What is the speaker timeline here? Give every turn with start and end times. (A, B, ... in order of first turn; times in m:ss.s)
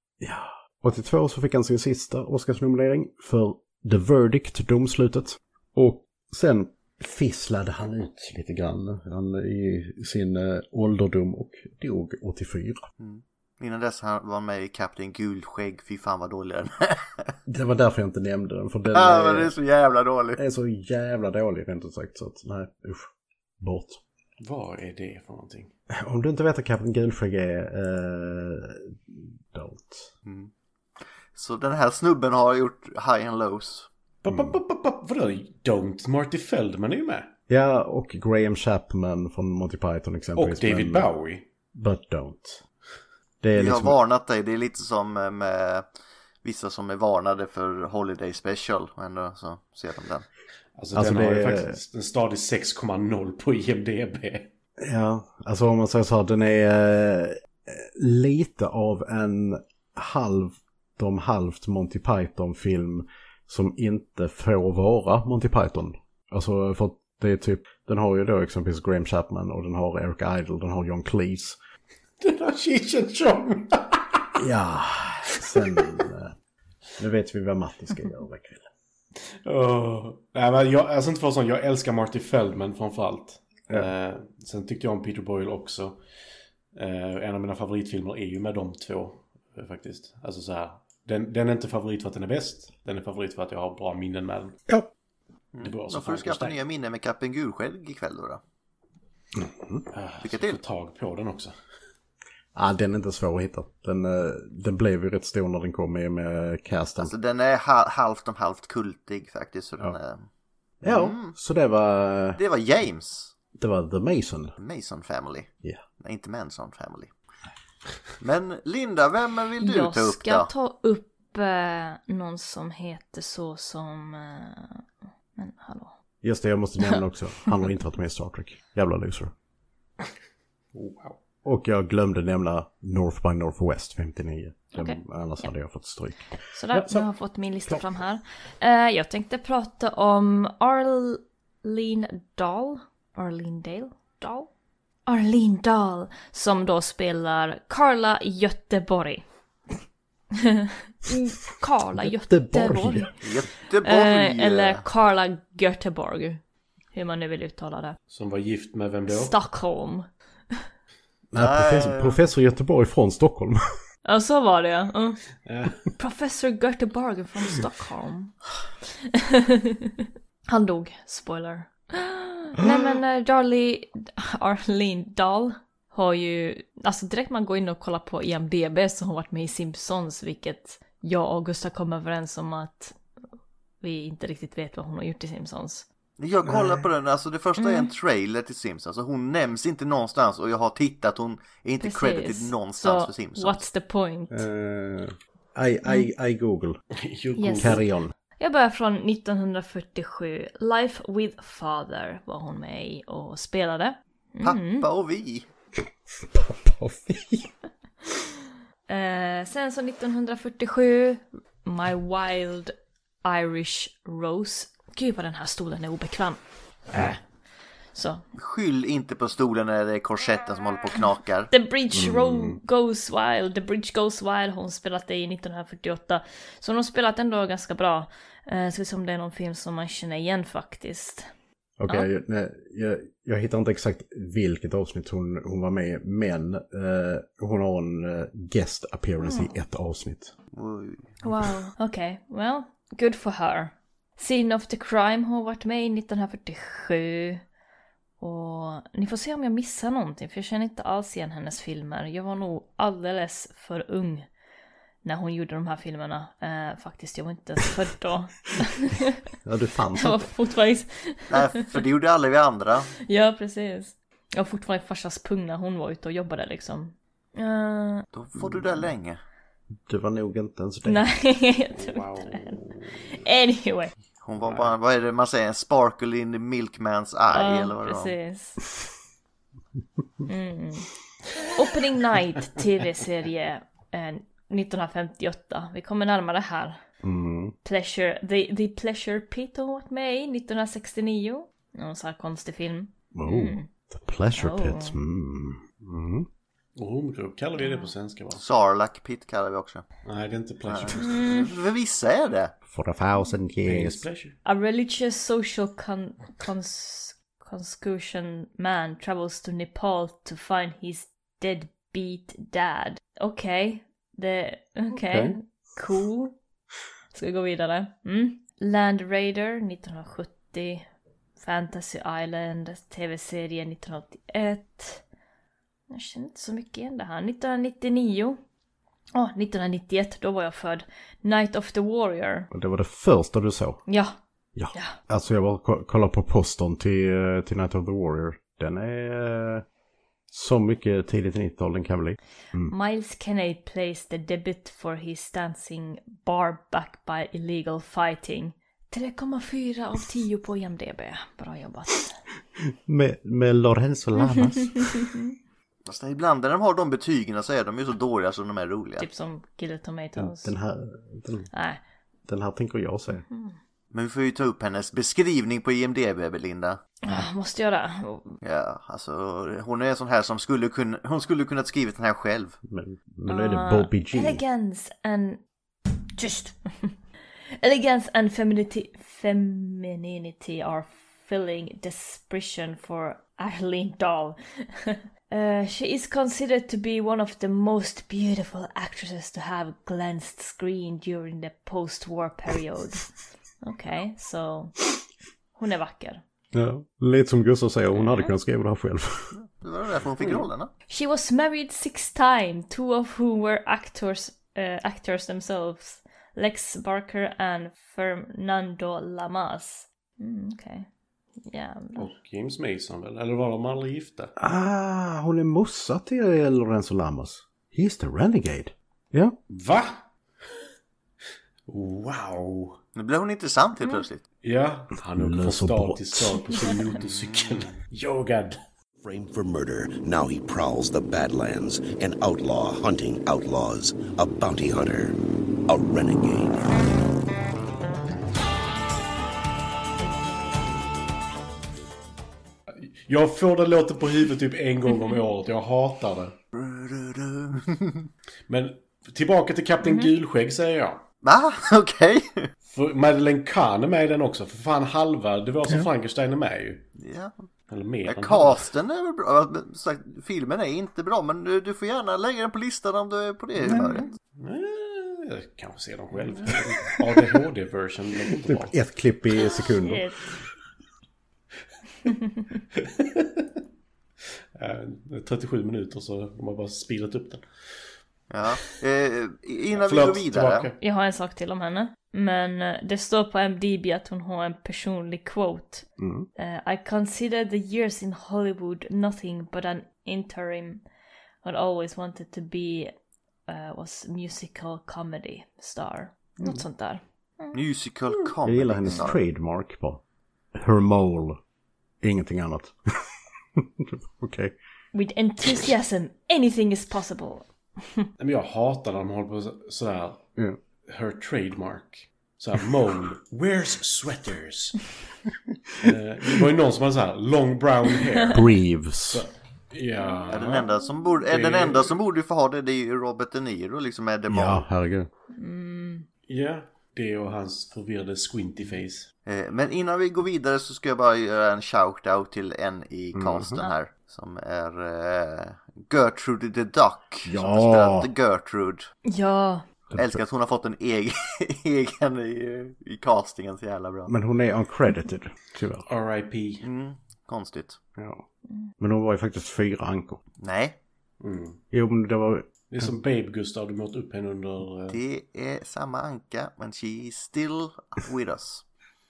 0:00.2-0:12.8 A
0:13.0-0:17.3 B
0:17.5-0:19.5 A
0:18.9-0:20.4 B
0:20.4-0:23.1 A
0:23.6-0:24.0 A
0:24.4-0:25.7 C
0:25.9-0:30.1 A
0:31.4-0:33.9 B
0:34.2-0:37.3 C
0:34.3-0:34.6 A
0:37.5-0:41.1 A
0:40.4-0:41.5 C
0:41.7-0:42.6 A
0:43.4-0:44.0 A
0:43.6-0:45.9 B
0:46.4-0:50.3 B
0:50.8-0:54.5 C
0:50.9-0:51.8 A
0:54.8-1:11.6 A
1:12.2-1:14.3 C
1:14.4-1:16.3 A
1:15.4-1:15.9 C
1:17.0-1:18.7 A
1:19.3-1:26.0 C
1:26.7-1:34.6 C
1:35.6-1:38.4 B
1:35.6-1:36.6 C
1:39.4-1:39.9 A
1:39.9-1:41.5 C
1:40.2-1:40.6 B
1:42.6-1:47.1 A
1:47.0-1:50.3 B
1:50.8-1:52.4 A
1:50.8-1:51.3 B
1:52.4-1:53.3 B
1:53.6-1:54.6 A
1:54.6-1:55.5 B
1:56.0-1:57.1 B
1:58.2-2:00.5 B
1:59.6-2:04.8 D
2:05.4-2:05.9 D
2:06.2-2:09.3 A
2:10.7-2:11.2 C
2:11.4-2:17.1 A
2:14.8-2:15.5 D
2:16.5-2:24.5 D
2:25.1-2:29.2 D
2:30.4-2:33.1 D
2:32.0-2:33.2 A
2:33.2-2:34.8 B
2:33.8-2:36.4 D
2:36.9-2:38.0 D
2:38.1-2:39.4 C
2:39.1-2:40.5 D
2:41.3-2:43.6 A
2:41.4-2:42.2 B
2:44.0-2:45.2 D
2:45.4-2:45.8 C
2:46.0-2:48.4 D
2:48.9-3:03.0 D
2:52.6-2:53.0 A
3:03.8-3:05.9 D
3:06.2-3:13.6 B
3:06.4-3:06.9 A
3:07.6-3:07.9 D
3:11.8-3:14.4 D
3:14.3-3:16.8 A
3:17.0-3:17.8 C
3:17.4-3:17.8 D
3:17.6-3:18.1 A
3:18.4-3:24.9 D
3:24.4-3:25.5 B
3:26.2-3:27.5 A
3:28.9-3:36.4 D
3:37.9-3:38.2 D
3:38.4-3:41.5 B
3:41.5-3:51.3 D
3:41.9-3:42.6 A
3:51.8-4:00.3 A
3:59.2-3:59.5 D
4:00.5-4:01.1 B
4:01.2-4:07.4 D
4:08.2-4:14.3 D
4:15.0-4:19.2 D
4:19.4-4:20.3 A
4:19.9-4:21.7 D
4:21.3-4:22.9 B
4:23.1-4:28.1 D
4:28.1-4:29.2 B
4:28.4-4:28.8 A
4:29.9-4:31.0 A
4:30.9-4:33.9 D
4:31.7-4:33.2 C
4:34.2-4:38.2 B
4:34.4-4:34.7 C
4:37.3-4:38.6 D
4:40.3-4:40.9 D
4:41.5-4:46.8 D
4:47.0-4:47.5 A
4:47.6-4:53.7 D
4:53.1-4:56.3 A
4:54.4-4:55.0 D
4:56.8-4:58.4 C
4:57.6-4:57.9 D
4:58.4-4:59.9 B
5:00.0-5:01.3 C
5:00.7-5:02.5 B
5:01.0-5:01.5 D
5:02.7-5:04.0 A
5:03.6-5:04.4 C
5:04.4-5:16.4 D
5:15.1-5:15.4 A
5:17.1-5:20.9 D
5:21.4-5:25.0 D
5:25.9-5:28.4 D
5:29.2-5:32.5 D
5:32.5-5:33.8 A
5:33.9-5:34.2 D
5:34.6-5:39.6 A
5:40.3-5:42.7 A
5:42.7-5:52.2 D
5:52.6-5:55.0 A
5:54.2-5:55.3 D
5:55.9-5:59.1 B
5:59.0-6:00.6 D
6:00.2-6:01.5 A
6:01.5-6:01.8 D
6:02.3-6:03.2 A
6:03.2-6:03.6 D
6:03.9-6:06.8 B
6:07.0-6:08.4 D
6:08.4-6:12.6 B
6:12.6-6:14.4 A
6:13.3-6:15.4 D
6:16.1-6:16.9 D
6:17.6-6:33.1 D
6:33.6-6:34.8 D
6:35.6-6:36.2 D
6:36.5-6:39.4 A
6:37.9-6:38.3 D
6:39.4-6:40.7 B
6:40.9-6:50.9 D
6:51.4-6:52.1 D
6:52.0-6:54.3 C
6:54.4-6:59.4 A
6:59.5-7:00.0 C
7:01.7-7:02.8 C
7:03.0-7:04.2 B
7:04.4-7:08.6 C
7:05.2-7:06.4 A
7:07.1-7:07.6 B
7:09.0-7:15.2 E
7:15.7-7:16.7 E
7:22.8-7:26.4 C
7:26.6-7:28.1 B
7:28.5-7:31.0 C
7:29.8-7:30.1 D
7:31.2-7:32.5 B
7:32.7-7:36.9 C
7:37.0-7:37.3 B
7:37.7-7:38.6 C
7:38.1-7:44.1 B
7:43.6-7:44.0 A
7:44.4-7:48.8 C
7:48.4-7:50.0 A
7:49.4-7:50.2 D
7:52.1-7:52.4 D
7:52.8-7:53.5 C
7:54.6-7:57.4 C
7:58.3-8:00.7 B
7:59.8-8:00.8 C
8:00.8-8:10.8 D
8:06.0-8:06.3 A
8:11.4-8:12.9 D
8:13.5-8:17.6 D
8:17.5-8:19.2 B
8:18.4-8:20.0 A
8:20.5-8:21.4 A
8:22.0-8:24.5 A
8:24.9-8:28.1 D
8:28.2-8:30.3 C
8:30.9-8:34.8 C
8:35.8-8:38.5 C
8:38.3-8:39.2 A
8:39.1-8:40.7 C
8:40.3-8:44.6 B
8:41.3-8:42.0 C
8:44.3-8:45.1 A
8:45.3-8:46.1 D
8:46.3-8:49.1 C
8:49.3-8:58.9 B
8:53.1-8:53.6 A
8:57.2-8:58.1 A
8:59.1-8:59.6 D
8:59.9-9:00.2 A
9:00.0-9:04.1 B
9:04.1-9:05.9 A
9:05.9-9:06.6 C
9:06.6-9:07.8 B
9:08.0-9:08.2 A
9:08.8-9:10.2 A
9:10.4-9:10.8 B
9:11.2-9:11.6 C
9:11.7-9:12.9 A
9:12.7-9:15.0 C
9:14.9-9:18.6 B